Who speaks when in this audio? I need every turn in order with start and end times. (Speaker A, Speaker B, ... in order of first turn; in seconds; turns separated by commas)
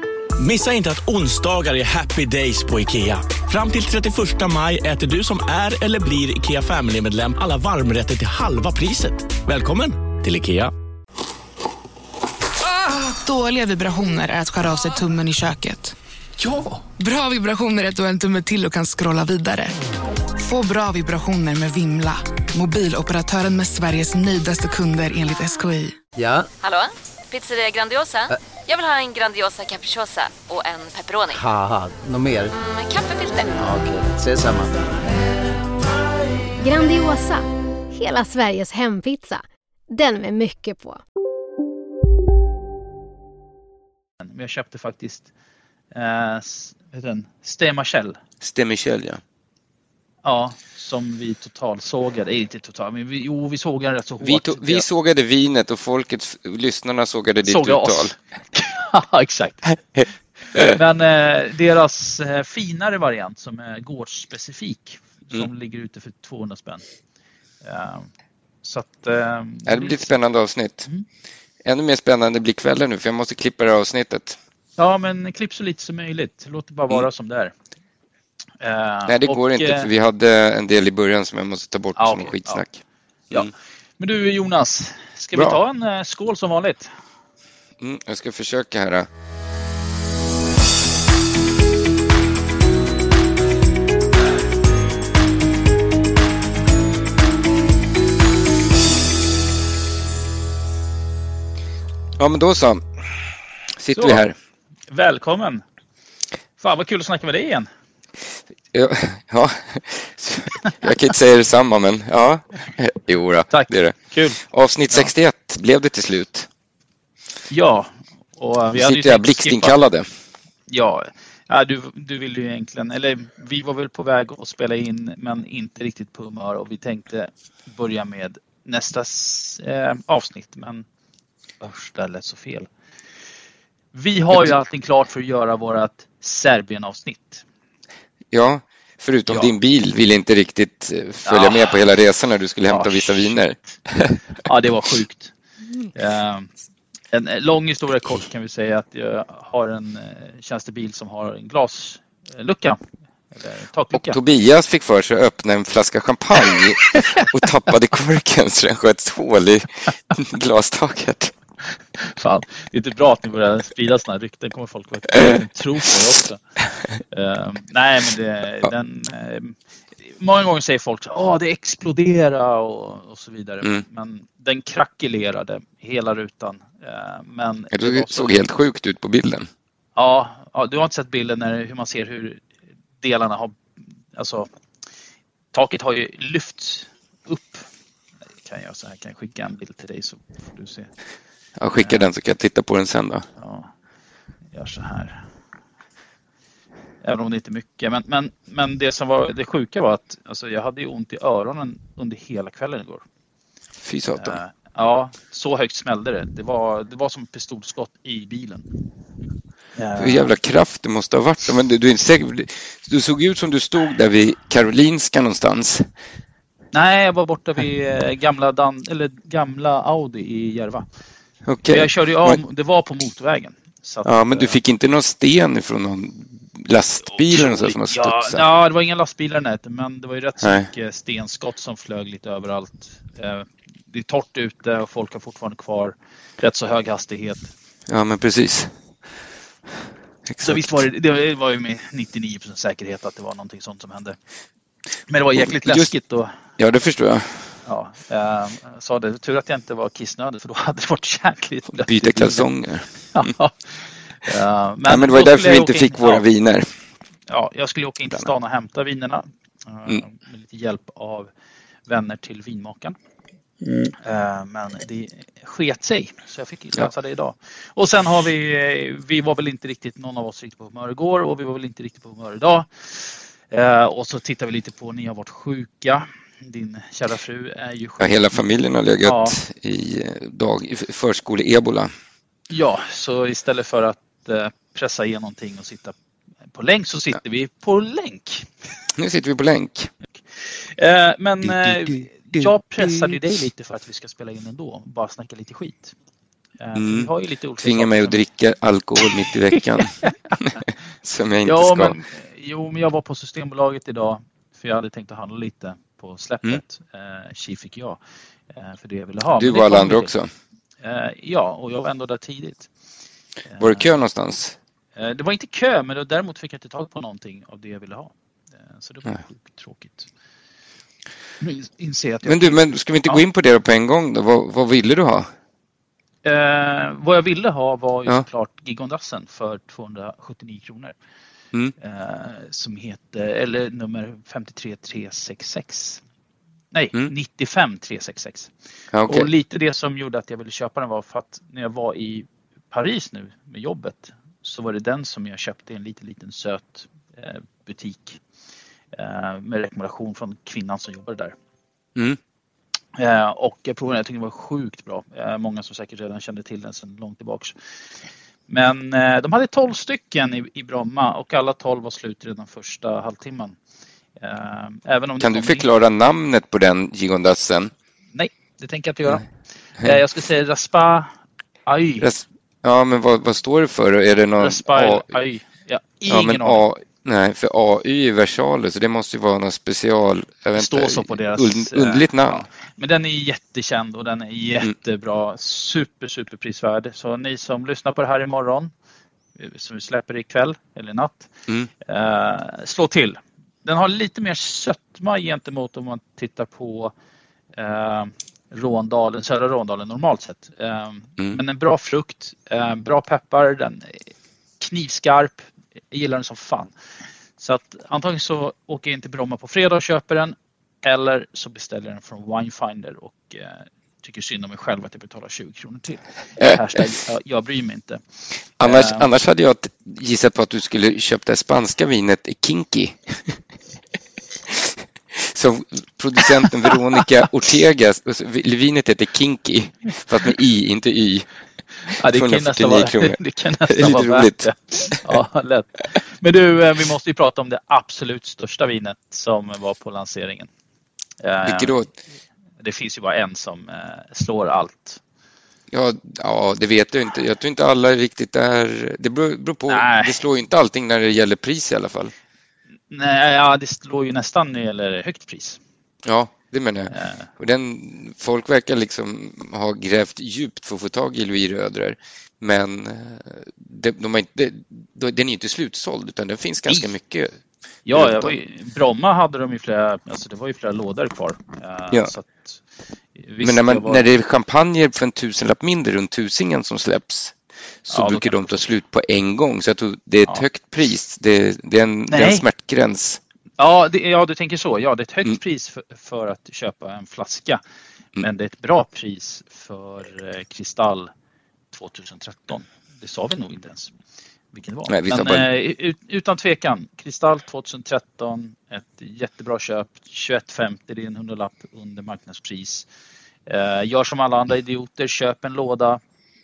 Speaker A: 0.4-10.7, Speaker B: 12.7-15.9, Speaker B: 16.5-19.7, Speaker B: 20.4-26.0, Speaker C: 26.1-26.5, Speaker D: 26.6-31.4, Speaker C: 31.3-32.5, Speaker D: 32.6-33.6, Speaker C: 33.6-35.0, Speaker E: 36.6-41.0, Speaker F: 44.2-45.3, Speaker F: 45.9-48.2, Speaker G: 48.4-49.2, Speaker F: 50.2-54.9, Speaker G: 54.2-58.1, Speaker F: 57.4-59.8, Speaker G: 60.0-60.8, Speaker F: 60.5-66.8, Speaker F: 67.6-68.1, Speaker F: 68.6-70.1, Speaker G: 69.7-70.9, Speaker G: 71.6-74.4, Speaker F: 74.8-77.5, Speaker F: 78.6-79.9, Speaker G: 79.1-83.5, Speaker F: 82.0-82.6, Speaker F: 83.3-86.9, Speaker G: 85.3-85.6, Speaker G: 87.8-89.1, Speaker G: 102.2-102.8, Speaker G: 103.8-104.3, Speaker F: 103.9-104.2, Speaker F: 104.9-105.6, Speaker F: 106.6-107.7, Speaker G: 108.7-116.5, Speaker F: 113.5-114.4, Speaker F: 117.5-119.8, Speaker G: 118.7-120.1, Speaker F: 120.7-130.8, Speaker F: 131.6-132.7, Speaker F: 133.9-137.4, Speaker G: 138.3-144.2, Speaker F: 141.2-141.8, Speaker F: 142.7-143.4, Speaker F: 144.4-145.3, Speaker F: 145.9-146.5, Speaker F: 147.1-152.8, Speaker F: 153.3-154.2, Speaker G: 153.9-161.3, Speaker F: 156.5-157.2, Speaker F: 162.0-166.4, Speaker F: 167.1-169.6, Speaker F: 170.1-178.4, Speaker G: 177.7-179.5, Speaker F: 179.9-182.4, Speaker F: 183.0-183.6, Speaker F: 184.1-184.5, Speaker F: 185.5-187.7, Speaker F: 188.4-190.9, Speaker G: 191.6-193.2, Speaker F: 191.8-192.1, Speaker F: 193.4-193.7, Speaker F: 194.5-195.2, Speaker F: 197.0-203.0, Speaker G: 203.8-204.4, Speaker F: 204.2-208.7, Speaker F: 209.8-210.3, Speaker G: 210.0-215.9, Speaker F: 216.7-220.8, Speaker G: 221.4-222.4, Speaker F: 221.7-224.6, Speaker G: 224.0-228.4, Speaker F: 227.1-237.5, Speaker G: 230.4-230.7, Speaker G: 237.9-238.7, Speaker G: 240.3-240.6, Speaker F: 240.4-244.2, Speaker F: 245.1-246.3, Speaker G: 245.3-245.9, Speaker G: 246.6-247.5, Speaker F: 247.6-252.5, Speaker G: 251.7-253.3, Speaker F: 253.1-256.2, Speaker G: 254.9-256.7, Speaker F: 257.3-261.3, Speaker F: 261.9-262.9, Speaker F: 264.0-278.4, Speaker G: 278.0-281.9, Speaker F: 279.0-279.4, Speaker F: 282.5-285.9, Speaker F: 286.5-288.5, Speaker G: 288.9-289.9, Speaker F: 290.4-295.9, Speaker G: 291.4-293.2, Speaker F: 296.6-298.2, Speaker G: 296.7-302.0, Speaker F: 299.8-300.4, Speaker F: 301.4-308.0, Speaker F: 308.5-310.1, Speaker G: 309.3-310.3, Speaker F: 310.8-312.7, Speaker F: 313.5-313.9, Speaker G: 313.6-314.6, Speaker F: 314.9-318.1, Speaker F: 318.7-320.1, Speaker F: 321.4-323.2, Speaker G: 322.2-325.3, Speaker F: 326.2-330.9, Speaker F: 331.8-336.0, Speaker F: 336.7-338.5, Speaker G: 338.9-339.3, Speaker F: 339.1-348.2, Speaker F: 348.9-351.3, Speaker F: 352.9-357.5, Speaker F: 358.5-363.6, Speaker F: 364.2-365.7, Speaker G: 365.2-367.7, Speaker F: 368.1-369.3, Speaker F: 369.8-371.1, Speaker F: 371.6-372.1, Speaker G: 372.0-375.1, Speaker F: 374.4-376.6, Speaker G: 376.1-382.5, Speaker F: 380.5-388.7, Speaker F: 389.4-391.3, Speaker F: 391.8-396.9, Speaker F: 397.5-404.1, Speaker F: 404.6-406.7, Speaker F: 407.4-418.0, Speaker F: 418.6-419.1, Speaker G: 418.6-423.4, Speaker G: 424.5-431.3, Speaker F: 431.9-440.5, Speaker G: 431.9-434.5, Speaker F: 441.2-441.7, Speaker G: 441.4-441.9, Speaker F: 442.6-445.0, Speaker G: 445.7-452.1, Speaker F: 449.7-450.2, Speaker F: 452.9-455.6, Speaker G: 456.0-467.4, Speaker F: 456.9-457.3, Speaker F: 467.9-472.6, Speaker G: 467.9-468.4, Speaker F: 473.2-474.1, Speaker G: 473.4-483.2, Speaker F: 477.9-478.7, Speaker F: 482.1-482.4, Speaker F: 483.6-487.6, Speaker F: 488.2-491.1, Speaker F: 491.7-493.9, Speaker F: 494.5-502.9, Speaker G: 494.9-495.5, Speaker F: 503.5-506.0